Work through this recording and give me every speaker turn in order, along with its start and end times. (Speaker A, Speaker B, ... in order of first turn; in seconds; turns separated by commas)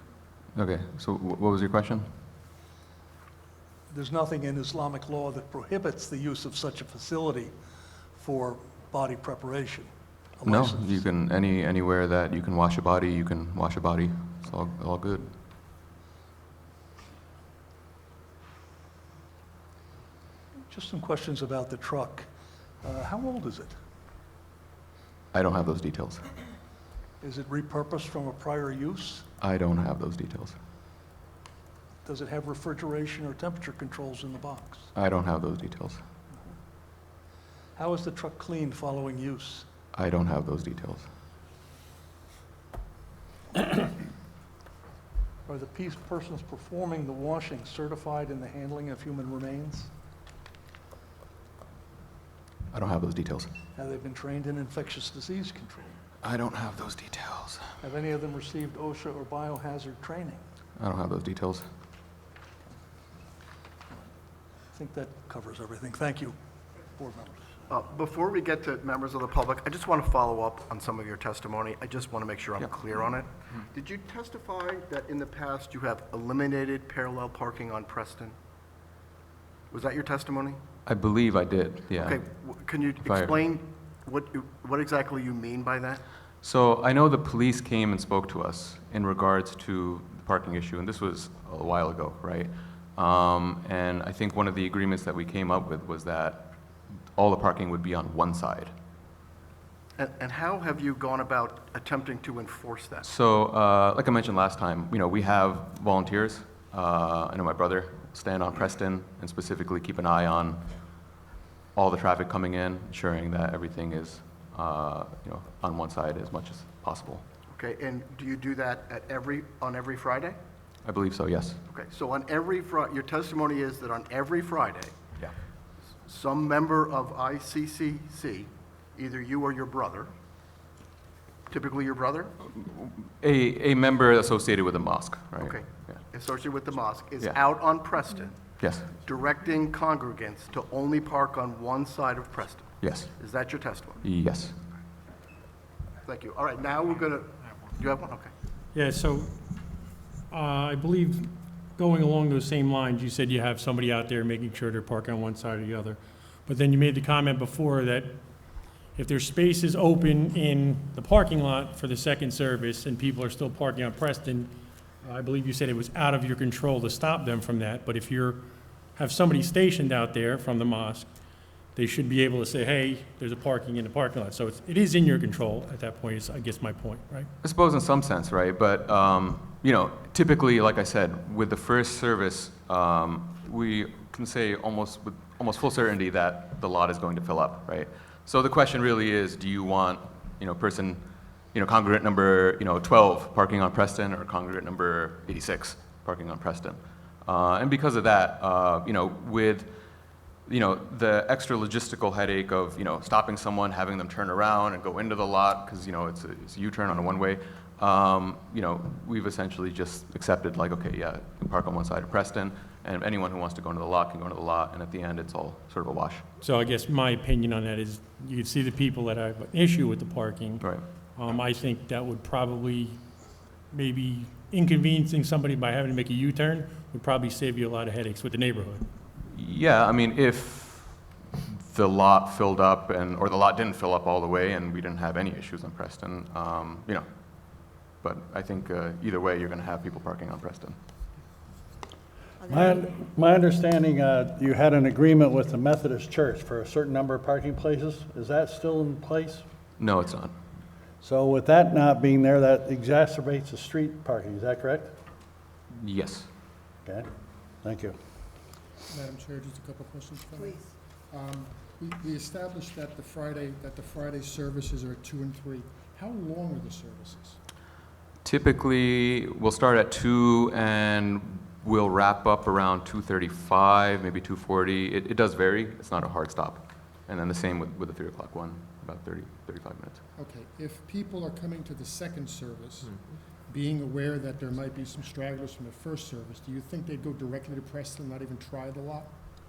Speaker A: 0.5-2.1, Speaker B: 3.9-7.5, Speaker B: 8.1-11.0, Speaker A: 10.4-15.3, Speaker B: 20.6-22.3, Speaker B: 22.8-23.8, Speaker A: 25.3-26.2, Speaker B: 27.2-29.3, Speaker A: 29.4-30.5, Speaker B: 32.0-34.9, Speaker A: 34.9-36.0, Speaker B: 37.8-39.6, Speaker A: 39.9-41.1, Speaker B: 45.5-49.9, Speaker A: 52.7-53.5, Speaker B: 53.7-56.0, Speaker A: 56.2-57.7, Speaker B: 57.8-60.4, Speaker A: 60.8-61.6, Speaker B: 64.7-67.5, Speaker C: 67.7-78.3, Speaker C: 79.7-80.6, Speaker A: 80.8-82.2, Speaker C: 82.0-86.0, Speaker A: 83.0-83.4, Speaker A: 86.4-96.5, Speaker A: 97.2-98.7, Speaker C: 100.0-103.0, Speaker A: 103.0-110.6, Speaker A: 111.7-117.2, Speaker C: 117.5-120.4, Speaker A: 120.8-121.6, Speaker C: 121.7-124.9, Speaker C: 126.0-130.1, Speaker C: 131.5-132.3, Speaker A: 132.4-136.0, Speaker C: 135.4-144.0, Speaker A: 138.6-138.9, Speaker A: 142.8-143.1, Speaker A: 144.0-144.5, Speaker C: 146.0-148.3, Speaker D: 148.7-149.4, Speaker D: 150.3-158.1, Speaker D: 158.9-164.5, Speaker D: 165.0-168.4, Speaker D: 169.0-171.1, Speaker D: 171.8-177.3, Speaker A: 177.4-191.0, Speaker A: 191.5-199.7, Speaker A: 200.5-216.2, Speaker D: 216.4-220.6, Speaker D: 221.2-223.0, Speaker D: 223.7-228.9, Speaker A: 229.3-237.1, Speaker A: 238.0-240.8, Speaker E: 242.4-249.4, Speaker A: 249.8-250.3, Speaker E: 251.0-254.9, Speaker A: 255.8-256.3, Speaker E: 257.6-257.9, Speaker F: 258.9-267.4, Speaker A: 268.2-280.0, Speaker F: 280.2-289.1